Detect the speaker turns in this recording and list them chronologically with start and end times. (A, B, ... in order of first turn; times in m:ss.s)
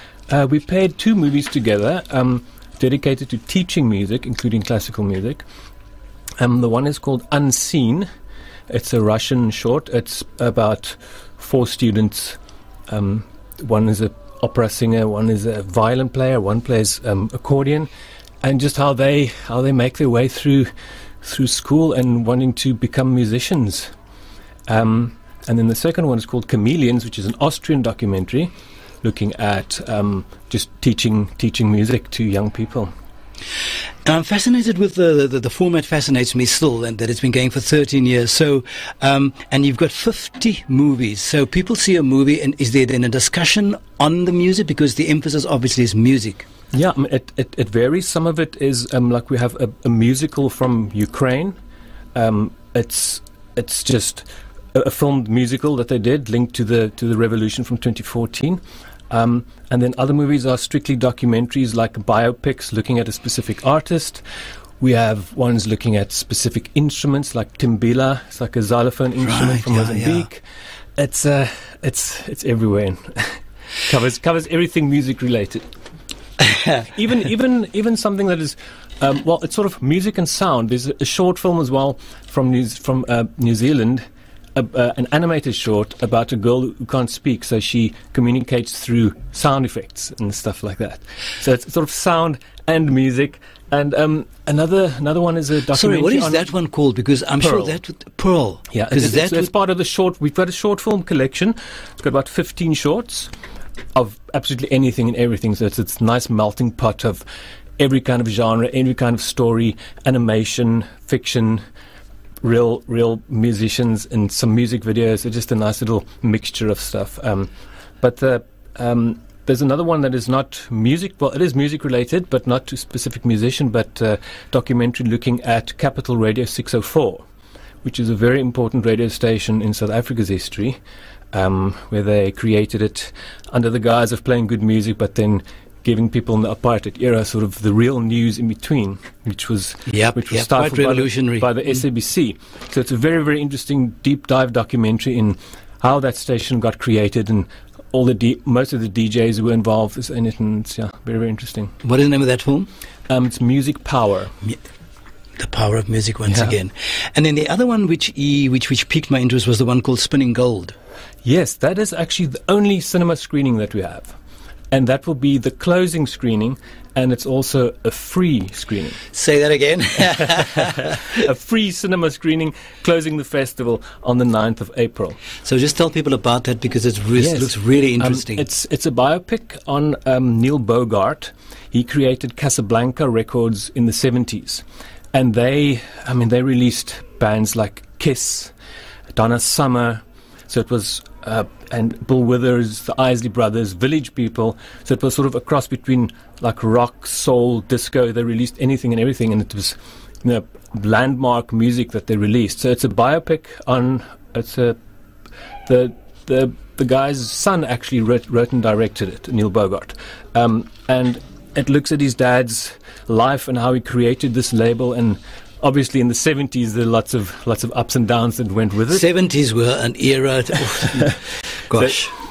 0:00.3-0:05.4 A
0:06.4-0:08.1 A
0:08.7-0:12.4 A
0:12.9-0:17.9 A
0:18.4-0:20.7 A
0:21.2-0:23.9 A
0:24.7-0:28.5 A
0:29.0-0:32.9 A
0:34.0-0:46.5 B
0:46.7-0:51.6 A
0:52.2-1:04.2 A
1:04.8-1:10.4 A
1:09.2-1:10.3 B
1:11.0-1:15.6 A
1:16.4-1:16.8 B
1:16.9-1:36.5 A
1:35.7-1:39.5 B
1:37.4-1:37.8 A
1:38.7-1:43.3 A
1:44.0-1:47.2 A
1:47.8-1:51.6 A
1:52.4-2:07.2 A
2:07.8-2:10.8 A
2:11.3-2:31.7 A
2:19.9-2:21.5 B
2:31.8-2:32.7 B
2:33.1-2:34.3 A
2:35.4-2:40.8 B
2:36.3-2:36.6 A
2:41.2-2:44.2 A
2:44.7-2:49.0 A
2:49.1-2:50.8 B
2:50.3-2:55.2 A
2:55.4-2:58.4 B
2:57.2-3:08.5 A
3:09.2-3:24.8 A
3:25.7-3:39.0 A
3:38.9-3:42.1 B